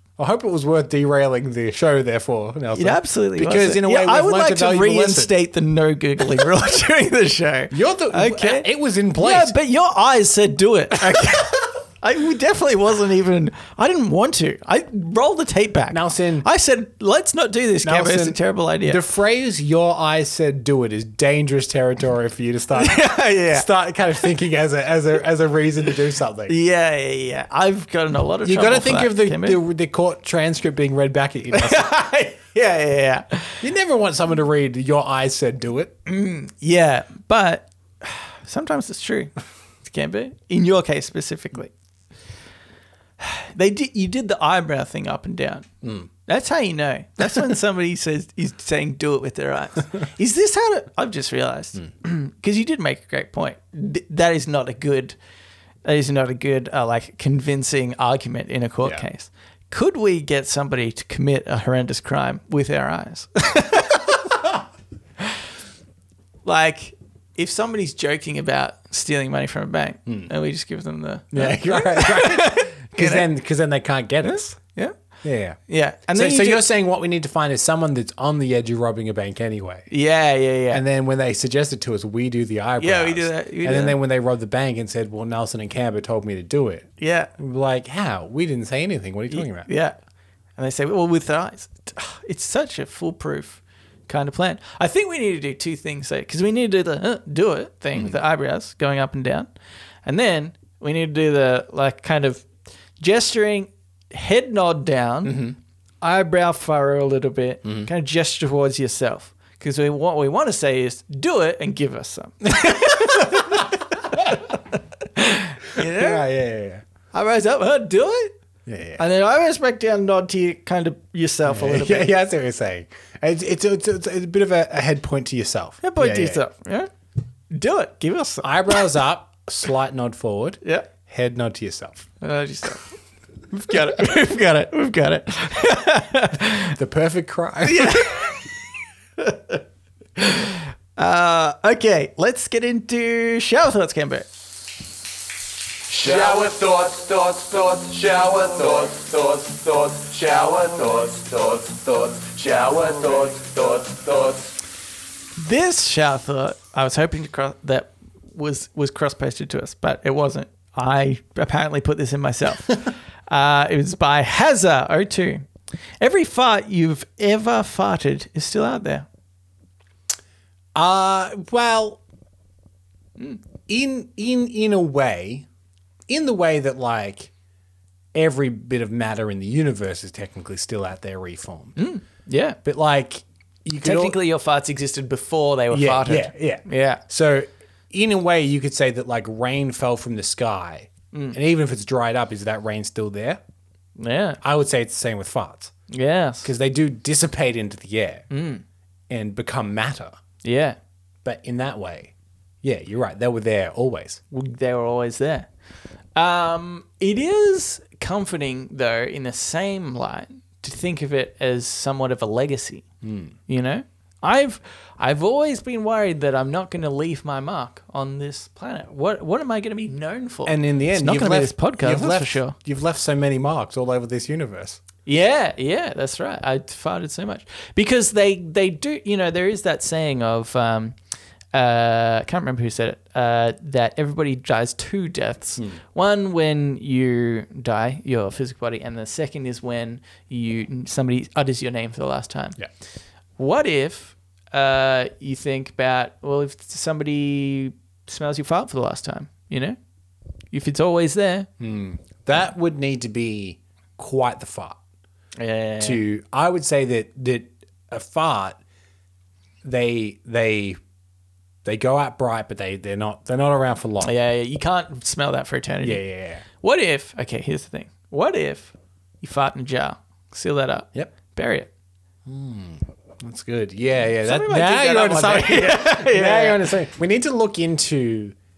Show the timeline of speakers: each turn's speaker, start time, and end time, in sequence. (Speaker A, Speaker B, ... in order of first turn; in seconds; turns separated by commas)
Speaker A: 0.2-5.3, Speaker B: 2.7-19.0, Speaker A: 7.7-9.5, Speaker A: 11.0-11.4, Speaker A: 15.9-16.5, Speaker A: 17.8-26.6, Speaker B: 22.7-23.7, Speaker B: 26.5-29.6, Speaker A: 28.4-31.9, Speaker B: 31.5-33.6, Speaker A: 33.6-36.0, Speaker B: 36.0-39.3, Speaker B: 39.8-41.7, Speaker B: 43.2-45.7, Speaker A: 45.8-46.1, Speaker B: 46.2-55.2, Speaker B: 55.8-64.0, Speaker B: 66.4-73.3, Speaker A: 71.3-74.6, Speaker B: 74.2-74.9, Speaker A: 75.2-75.6, Speaker B: 75.7-76.6, Speaker A: 76.1-79.9, Speaker B: 79.9-80.8, Speaker A: 80.7-89.7, Speaker B: 82.8-84.0, Speaker B: 87.0-87.3, Speaker B: 89.3-90.0, Speaker B: 90.6-99.5, Speaker B: 100.0-102.5, Speaker B: 103.0-114.4, Speaker A: 105.2-105.5, Speaker A: 107.6-107.9, Speaker A: 112.8-114.4, Speaker B: 115.1-116.2, Speaker A: 115.8-116.8, Speaker B: 117.1-118.3, Speaker A: 118.7-119.0, Speaker B: 119.0-122.1, Speaker A: 121.5-126.4, Speaker B: 125.8-126.9, Speaker B: 127.5-128.8, Speaker A: 128.4-132.1, Speaker B: 132.2-132.9, Speaker B: 133.5-136.8, Speaker A: 136.7-138.3, Speaker B: 137.6-138.4, Speaker B: 139.2-139.6, Speaker B: 140.2-144.3, Speaker C: 145.9-154.5, Speaker B: 155.3-165.4, Speaker B: 166.0-169.1, Speaker A: 170.7-172.0, Speaker A: 173.7-175.4, Speaker A: 176.1-177.3, Speaker A: 178.1-181.8, Speaker B: 181.8-182.6, Speaker A: 182.6-184.2, Speaker B: 183.8-187.0, Speaker A: 185.7-193.4, Speaker B: 191.1-191.4, Speaker B: 194.0-194.4, Speaker A: 194.4-195.7, Speaker B: 195.9-196.5, Speaker A: 196.4-198.3, Speaker B: 198.3-198.6, Speaker A: 199.1-200.2, Speaker B: 200.4-200.8, Speaker A: 201.2-204.2, Speaker B: 204.3-205.5, Speaker B: 206.2-212.8, Speaker A: 213.0-213.3, Speaker B: 213.5-222.5, Speaker A: 220.4-224.8, Speaker B: 225.1-230.9, Speaker B: 231.5-242.6, Speaker B: 243.4-249.8, Speaker B: 250.5-251.5, Speaker A: 251.6-254.8, Speaker B: 255.4-256.0, Speaker A: 255.8-258.6, Speaker A: 259.6-260.8, Speaker A: 261.6-264.1, Speaker B: 264.0-266.0, Speaker A: 265.8-266.4, Speaker B: 266.6-271.7, Speaker A: 272.2-278.4, Speaker B: 274.2-276.7